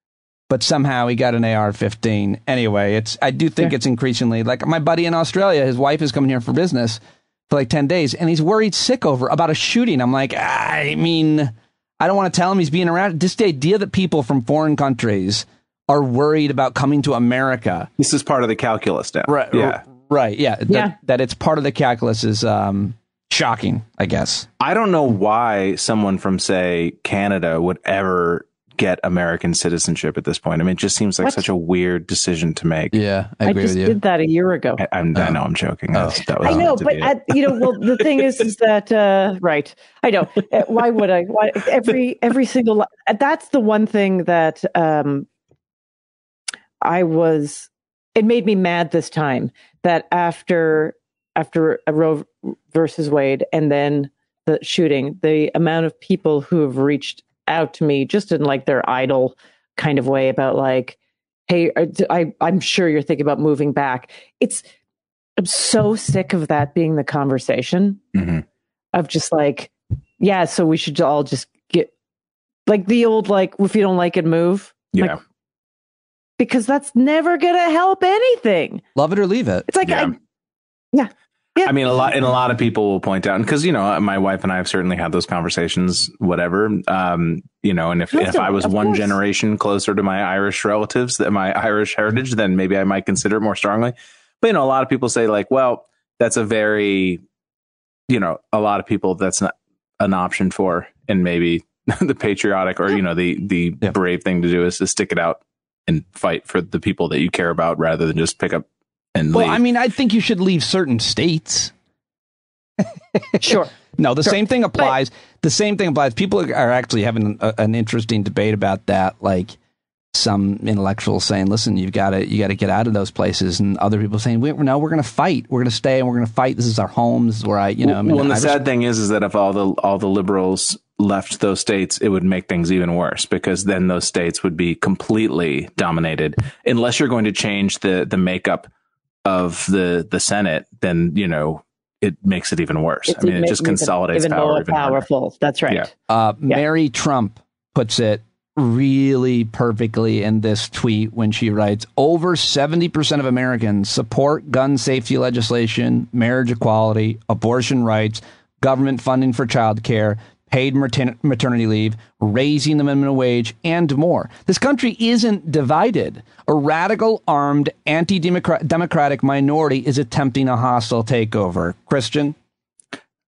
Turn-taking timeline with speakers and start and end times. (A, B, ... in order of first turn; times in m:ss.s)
0:00.5-0:17.9 A
0:18.0-0:19.8 B
0:19.3-0:24.5 A
0:24.6-0:32.9 B
0:32.9-0:34.0 A
0:33.4-0:34.8 C
0:34.8-0:37.1 B
0:35.9-0:36.5 A
0:36.4-0:45.2 C
0:46.8-1:01.0 C
1:01.5-1:04.6 C
1:05.4-1:08.0 C
1:08.1-1:08.4 B
1:08.9-1:11.9 C
1:12.6-1:15.1 C
1:14.9-1:15.2 B
1:16.4-1:18.8 C
1:19.0-1:19.6 A
1:19.7-1:20.1 C
1:19.8-1:20.1 B
1:20.9-1:21.7 C
1:21.6-1:37.2 B
1:28.1-1:29.1 C
1:38.1-1:49.6 B
1:49.3-1:51.7 A
1:52.8-1:59.6 A
1:53.4-1:53.7 C
1:54.2-1:54.9 C
2:00.1-2:08.6 A
2:07.8-2:18.7 B
2:19.2-2:25.0 B
2:23.1-2:25.9 C
2:26.1-2:52.3 A